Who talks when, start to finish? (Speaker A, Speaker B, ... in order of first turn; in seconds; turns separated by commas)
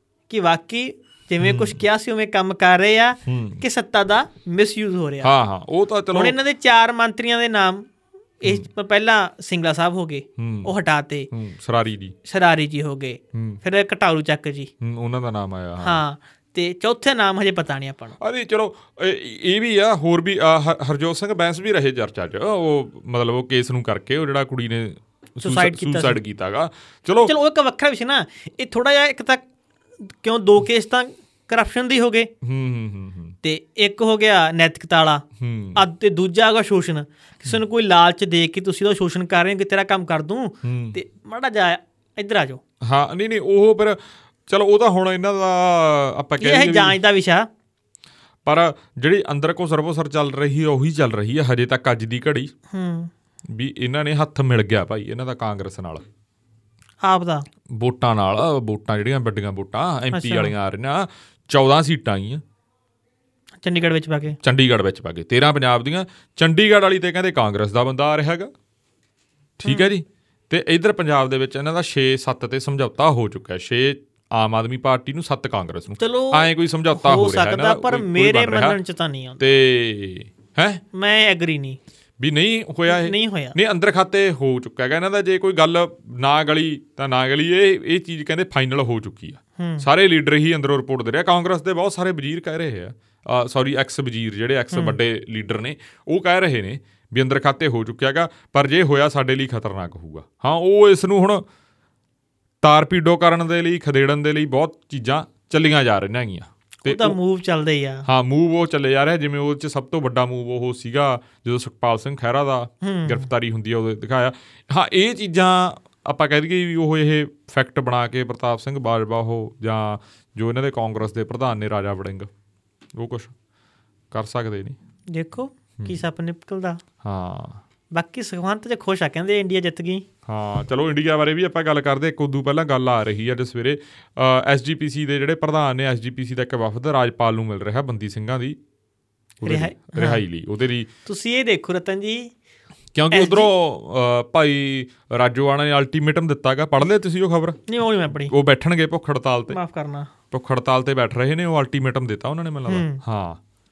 Speaker A: 0.3-5.3, Speaker B: 1.4-1.8, Speaker B: 3.3-3.6, Speaker B: 5.2-6.4, Speaker A: 6.1-7.9, Speaker A: 8.4-11.3, Speaker B: 10.4-10.7, Speaker B: 11.3-12.2, Speaker A: 12.2-14.7, Speaker B: 13.3-13.6, Speaker B: 14.8-16.0, Speaker A: 15.8-18.2, Speaker B: 18.2-27.3, Speaker A: 25.4-26.2, Speaker A: 27.2-29.4, Speaker A: 30.1-32.3, Speaker B: 32.4-33.4, Speaker A: 33.4-35.2, Speaker B: 35.4-35.8, Speaker A: 35.8-42.6, Speaker B: 40.6-41.0, Speaker B: 42.8-47.0, Speaker A: 46.4-47.5, Speaker B: 48.5-52.5, Speaker A: 52.7-53.1, Speaker B: 53.5-56.0, Speaker A: 57.0-57.5, Speaker B: 57.7-62.4, Speaker A: 60.1-60.5, Speaker A: 63.6-64.4, Speaker B: 64.4-68.5, Speaker B: 69.6-78.8, Speaker A: 76.0-79.4, Speaker B: 79.4-80.8, Speaker A: 80.9-81.8, Speaker B: 82.2-101.4, Speaker A: 82.9-83.6, Speaker A: 89.6-89.9, Speaker A: 94.7-95.0, Speaker B: 102.6-107.2, Speaker A: 106.8-108.1, Speaker B: 108.1-122.3, Speaker A: 112.8-113.3, Speaker B: 122.9-123.3, Speaker B: 124.1-124.8, Speaker A: 125.1-126.8, Speaker B: 127.0-127.6, Speaker A: 127.9-130.1, Speaker B: 130.3-138.6, Speaker B: 139.4-140.9, Speaker A: 139.4-140.2, Speaker A: 141.1-142.3, Speaker B: 142.9-147.6, Speaker A: 143.1-143.5, Speaker A: 147.7-148.3, Speaker B: 148.2-149.6, Speaker A: 149.5-150.1, Speaker B: 150.3-153.4, Speaker A: 152.7-153.0